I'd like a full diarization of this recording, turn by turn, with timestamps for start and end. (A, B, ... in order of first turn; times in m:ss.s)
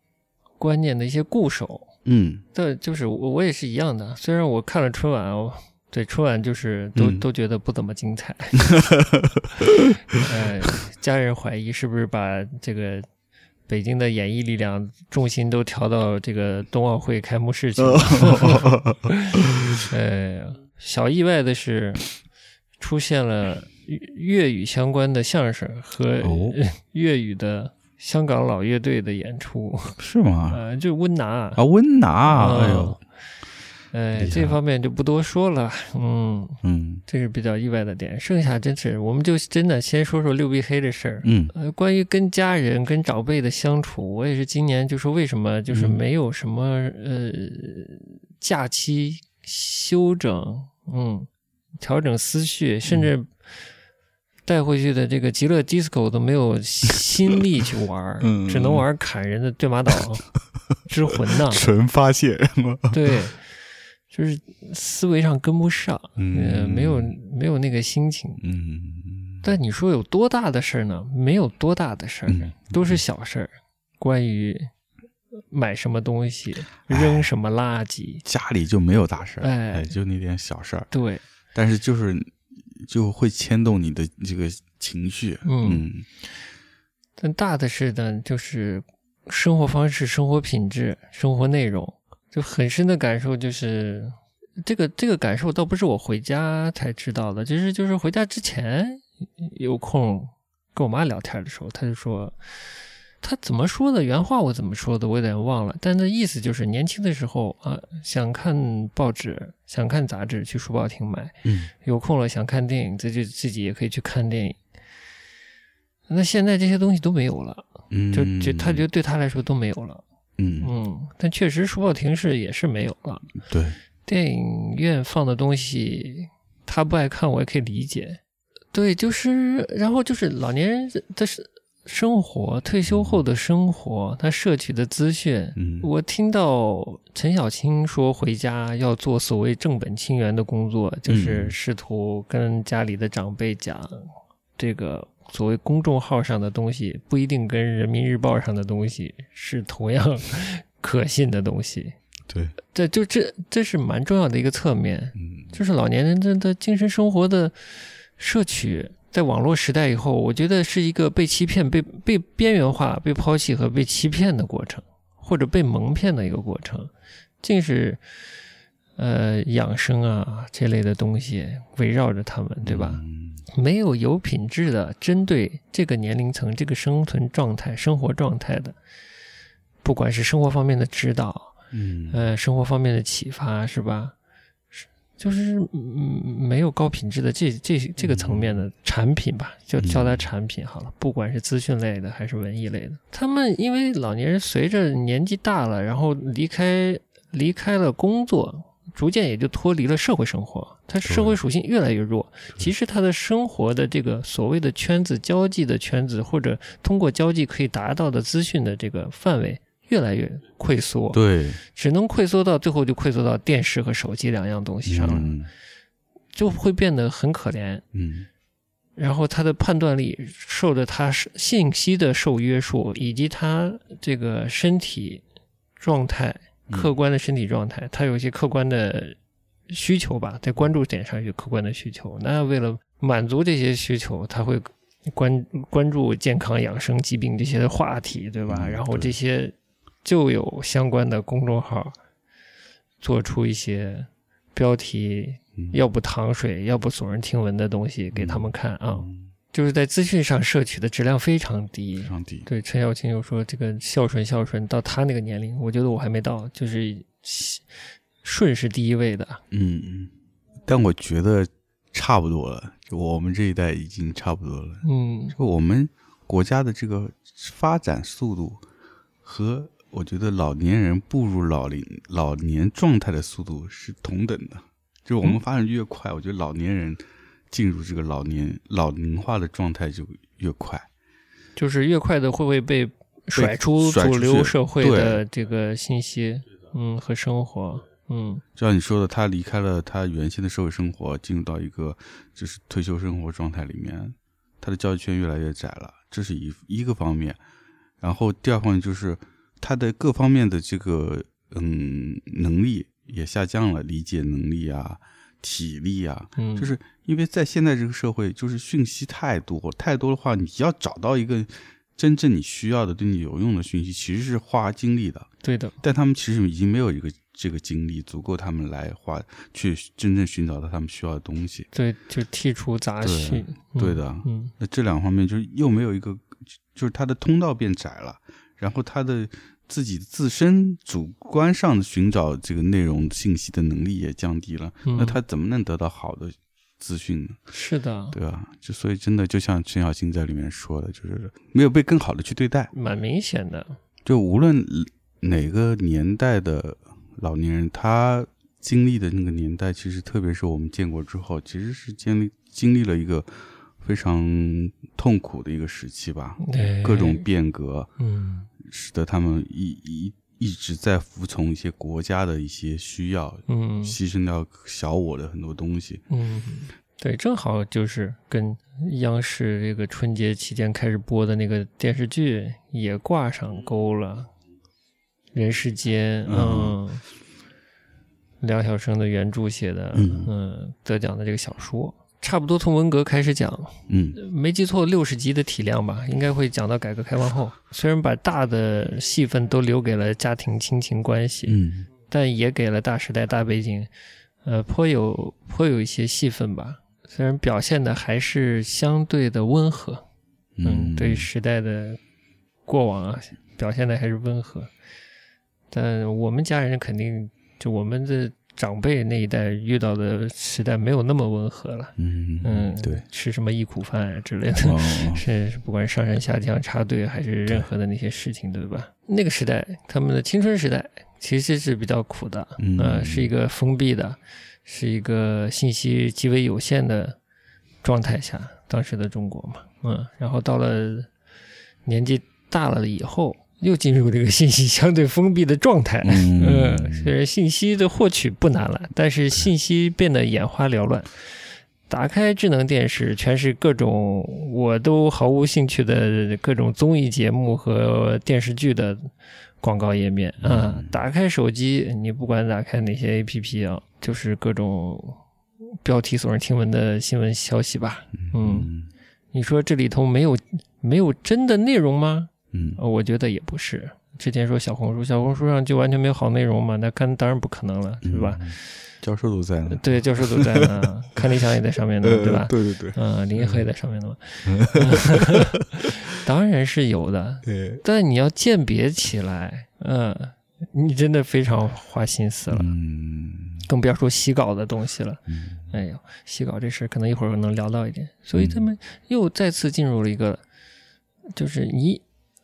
0:00.6-0:01.9 A
0:02.0-0:02.4 B
0:02.5-0:08.7 A
0:07.0-0:07.2 B
0:08.6-0:10.2 B
0:10.1-0:13.1 A
0:13.7-0:22.0 A
0:17.8-0:19.8 B
0:22.8-0:30.0 A
0:26.2-0:26.6 B
0:30.0-0:30.6 B
0:30.5-0:31.6 A
0:31.6-0:33.0 B
0:32.3-0:33.0 A
0:33.9-0:51.3 A
0:34.2-0:34.6 B
0:36.6-0:37.0 B
0:41.2-0:41.5 B
0:45.7-0:46.0 B
0:51.8-0:53.3 A
0:54.5-1:00.3 A
0:58.2-0:58.9 B
1:00.9-1:01.6 A
1:01.3-1:03.2 B
1:02.9-1:03.4 A
1:04.1-1:08.4 A
1:06.2-1:07.2 B
1:08.4-1:09.5 B
1:09.4-1:14.7 A
1:12.3-1:13.0 B
1:15.5-1:18.2 A
1:16.9-1:17.3 B
1:18.2-1:20.9 B
1:19.4-1:20.0 A
1:20.9-1:21.2 A
1:21.5-1:26.1 B
1:25.4-1:25.8 A
1:27.2-1:42.6 A
1:43.2-1:54.6 A
1:51.4-1:51.7 B
1:56.1-2:00.0 A
1:57.9-1:58.9 B
2:00.4-2:00.7 B
2:00.6-2:03.3 A
2:03.4-2:03.8 B
2:04.1-2:08.2 A
2:08.7-2:24.0 A
2:12.9-2:13.2 B
2:15.6-2:15.9 B
2:21.1-2:21.6 B
2:24.6-2:32.0 A
2:32.3-2:32.6 B
2:32.6-2:46.9 A
2:35.2-2:35.6 B
2:47.4-2:48.0 A
2:49.0-2:58.8 A
2:52.6-2:53.4 B
2:59.8-3:01.6 A
3:01.7-3:02.2 B
3:02.1-3:04.2 A
3:04.7-3:35.3 A
3:08.0-3:08.6 B
3:09.8-3:10.3 B
3:21.0-3:21.4 B
3:31.1-3:31.6 B
3:34.9-3:35.5 B
3:36.3-3:37.8 A
3:37.9-3:38.3 B
3:39.0-3:45.2 A
3:45.8-3:49.2 A
3:49.7-4:02.0 A
3:58.5-3:59.2 B
4:03.0-4:17.7 A
4:08.1-4:09.3 B
4:12.0-4:12.5 B
4:18.2-4:19.4 A
4:19.5-4:20.1 B
4:20.7-4:28.6 B
4:24.8-4:25.4 A
4:29.2-4:40.9 B
4:41.6-4:48.4 A
4:43.4-4:45.2 B
4:48.6-4:57.4 B
4:58.0-5:15.3 B
5:06.4-5:06.7 A
5:15.4-5:15.8 A
5:15.8-5:21.7 B
5:21.7-5:24.5 A
5:23.0-5:37.4 B
5:34.8-5:35.2 A
5:37.5-5:38.2 A
5:38.1-5:42.7 B
5:42.7-5:43.8 A
5:44.0-5:57.9 B
5:56.4-5:57.3 A
5:58.0-5:58.5 A
5:58.6-6:06.0 B
6:03.5-6:04.0 A
6:06.1-6:14.3 A
6:15.3-6:17.0 A
6:16.3-6:16.8 B
6:18.4-6:33.9 A
6:19.9-6:20.3 B
6:23.9-6:24.2 B
6:31.5-6:31.9 B
6:34.4-6:40.0 A
6:40.6-6:41.3 B
6:40.6-6:42.0 A
6:42.7-6:44.7 A
6:45.7-7:07.2 A
6:52.0-6:53.0 B
6:54.6-6:55.2 B
7:02.6-7:03.3 B
7:07.8-7:11.1 A
7:11.9-7:21.1 A
7:16.0-7:17.1 B
7:21.9-7:38.7 A
7:30.4-7:31.0 B
7:38.1-7:38.9 B
7:39.3-7:48.4 A
7:42.5-7:42.8 B
7:48.0-7:50.9 B
7:49.7-8:02.7 A
7:52.0-7:53.7 B
7:54.4-7:55.9 B
7:57.4-7:57.8 B
8:02.5-8:03.7 B
8:03.6-8:10.4 A
8:05.3-8:05.7 B
8:08.3-8:08.6 B
8:11.3-8:12.0 A